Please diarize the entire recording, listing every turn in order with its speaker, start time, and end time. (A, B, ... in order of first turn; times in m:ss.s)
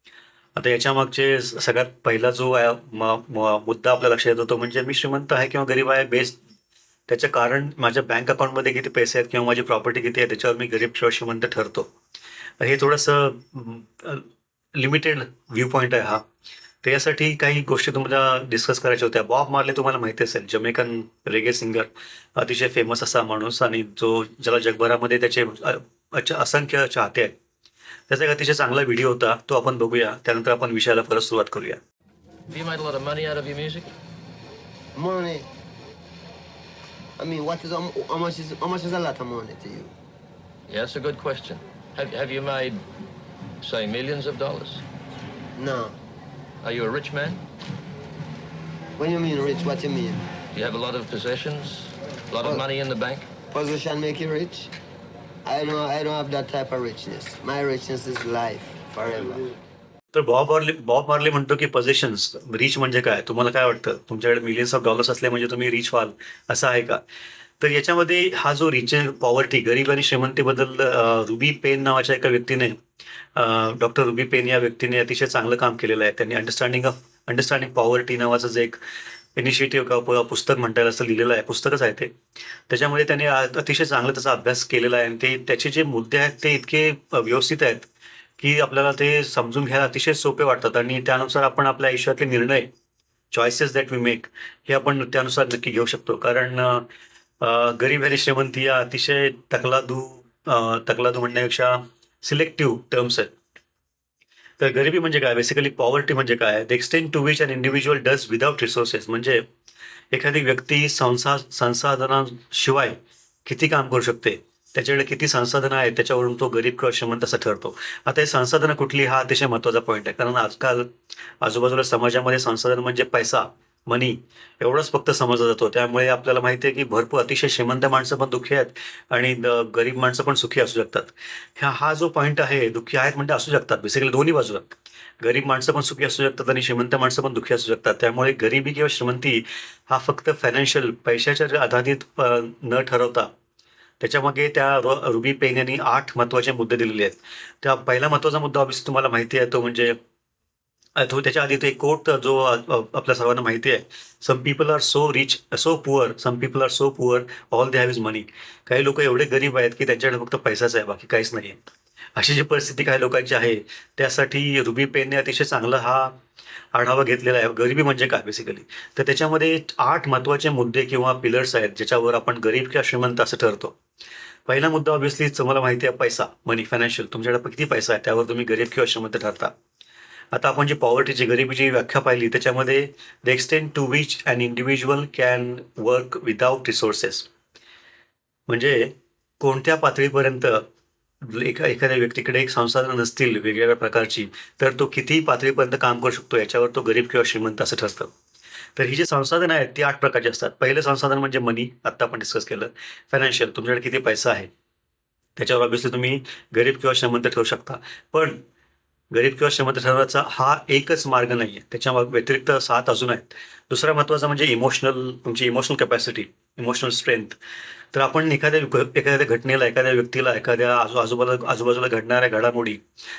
0:00.6-0:06.4 A
0:07.1-0:11.9 A
0:12.6-0:16.2 A
0:16.8-0:27.4 A
0:28.1-0:31.8 A
0:32.5-0:33.9 B
0:34.9-0:35.5 C
0:37.2-0:39.9 C
0:40.7-0:42.8 B
0:43.6-0:44.8 B
0:45.6-0:45.9 C
0:46.6-0:47.4 B
0:49.0-0:50.2 C
0:50.5-0:53.3 B
0:53.5-0:54.7 C
0:55.4-0:59.5 C
1:00.1-1:07.0 A
1:07.6-1:12.8 A
1:13.4-1:18.8 A
1:19.4-1:22.1 A
1:22.7-1:27.9 A
1:28.4-1:32.7 A
1:33.3-1:36.8 A
1:37.4-1:43.3 A
1:44.6-1:49.4 A
1:50.1-2:23.3 A
2:24.0-2:30.0 A
2:31.0-2:41.6 A
2:42.2-2:46.2 A
2:46.7-2:53.8 A
2:54.5-2:59.5 A
3:00.3-3:07.3 A
3:08.5-3:10.6 A
3:11.2-3:18.1 A
3:18.8-3:24.5 A
3:25.4-3:28.4 A
3:29.1-3:37.4 A
3:37.9-3:42.8 A